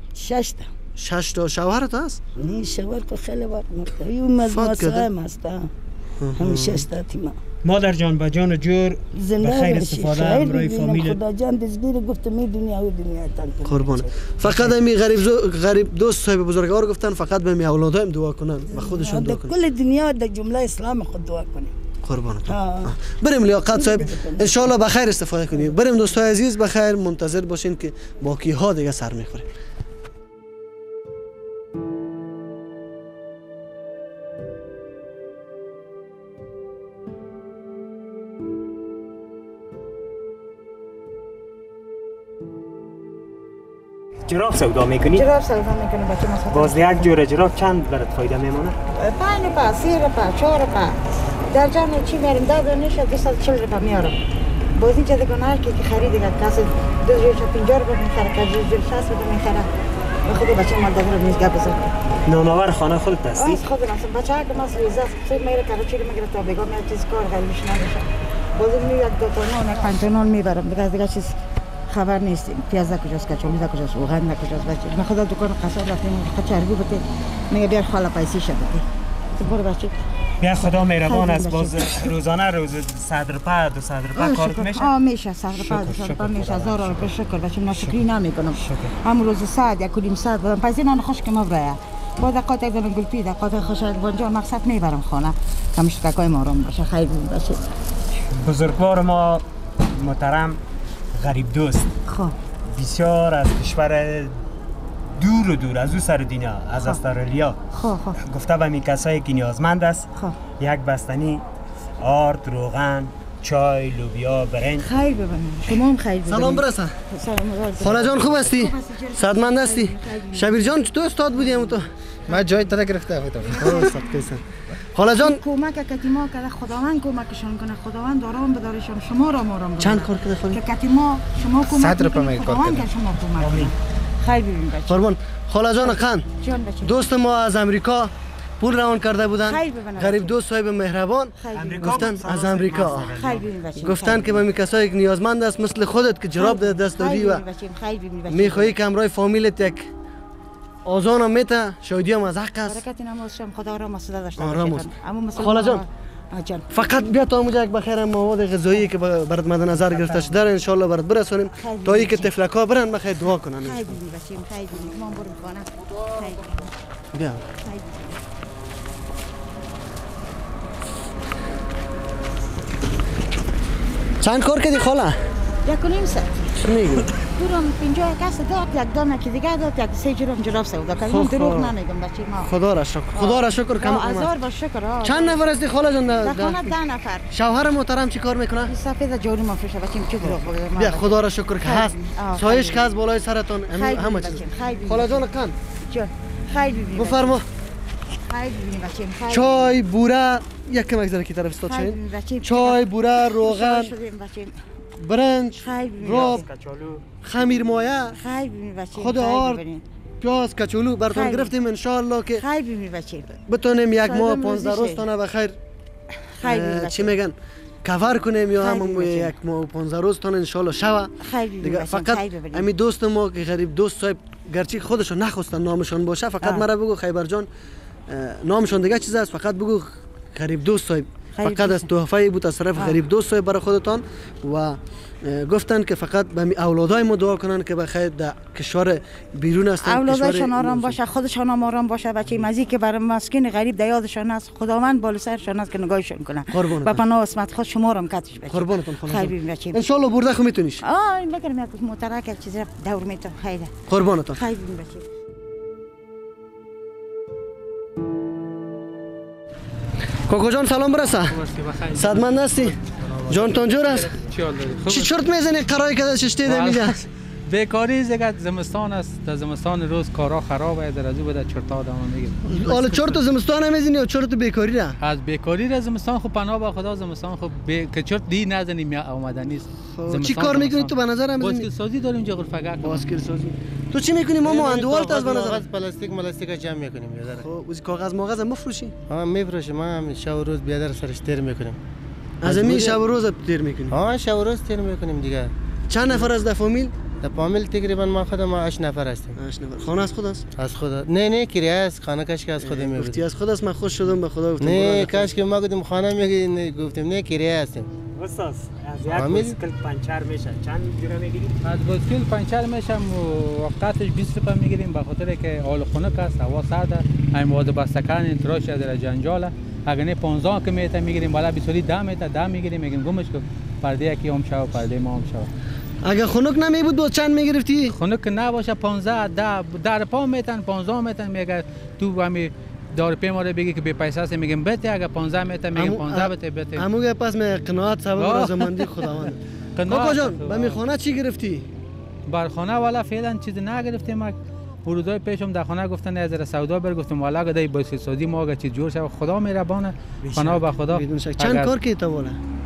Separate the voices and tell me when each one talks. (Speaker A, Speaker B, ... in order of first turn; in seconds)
Speaker A: 0.1-0.7, 2.4-5.7, 6.3-7.4, 9.1-14.3, 18.7-21.7, 22.5-22.9, 23.7-24.7
Speaker B: 1.0-2.2, 4.4-5.1, 6.2-6.8, 13.7-19.6, 22.0-29.5, 116.2-117.0, 117.8-121.9, 123.6-124.4, 124.9-125.4, 129.8-130.6, 134.9-136.2, 136.8-143.2, 143.8-147.4, 148.3-149.9, 150.8-152.8, 154.4-155.8, 156.7-164.0, 167.1-167.4, 174.2-175.2, 176.6-177.1, 181.1-181.7, 182.4-184.3, 185.0-186.7, 187.3-188.7, 190.2-195.5, 196.9-197.4, 199.3-203.9, 205.0-206.4, 207.2-208.2, 208.9-209.6, 210.2-212.4, 213.4-215.6, 216.4-227.5, 228.1-241.0, 246.5-247.0, 248.5-250.8, 253.9-254.4, 260.3-261.4, 261.9-262.7, 263.3-264.2, 264.8-267.0, 272.5-275.0, 279.9-281.7, 282.8-285.6, 287.4-288.9, 292.4-294.0, 295.9-296.9, 299.3-300.4, 302.6-305.3, 326.0-327.9, 335.7-341.7, 350.9-352.4
Speaker C: 7.6-11.2, 44.3-45.2, 46.5-48.8, 62.2-63.6, 80.4-84.9, 85.5-87.1, 87.7-88.0, 88.6-88.9, 98.4-100.6, 101.1-101.9, 102.7-104.4, 105.2-107.6, 108.2-111.4, 112.0-114.9, 133.4-133.7, 141.5-143.5, 206.0-207.0, 308.1-311.6, 350.2-350.7
Speaker D: 45.1-47.1, 48.9-51.0, 51.5-54.2, 54.7-59.7, 60.2-61.9, 63.3-71.3, 71.9-78.8, 79.3-80.0, 81.0-82.1, 84.1-97.6, 102.0-102.3, 107.7-108.2, 114.8-121.8, 125.0-135.1, 135.8-137.0, 139.4-140.3, 141.4-142.2, 143.1-144.4, 146.4-148.8, 152.7-156.7, 161.6-162.3, 163.6-166.7, 167.5-168.2, 175.6-176.3, 177.2-182.5, 183.1-185.4, 186.2-187.3, 188.7-192.8, 193.7-195.3, 195.8-197.4, 198.3-199.8, 201.7-204.6, 205.6-206.5, 208.2-209.8, 211.1-211.5, 212.4-213.3, 213.9-215.1, 216.4-217.2, 218.1-219.3, 221.2-222.7, 226.4-226.7, 231.4-231.9, 239.8-249.8, 250.8-253.7, 254.3-255.0
Speaker E: 122.3-123.9, 131.7-132.8
Speaker F: 261.3-262.7, 263.2-265.1, 266.4-273.2, 275.0-283.0, 311.6-325.5, 327.9-336.9, 338.2-338.9, 339.9-340.8, 342.3-351.7
Speaker G: 284.4-287.5, 289.1-291.8, 292.4-293.0, 293.9-295.5, 297.2-299.4, 300.6-303.2, 304.6-307.9, 309.1-309.6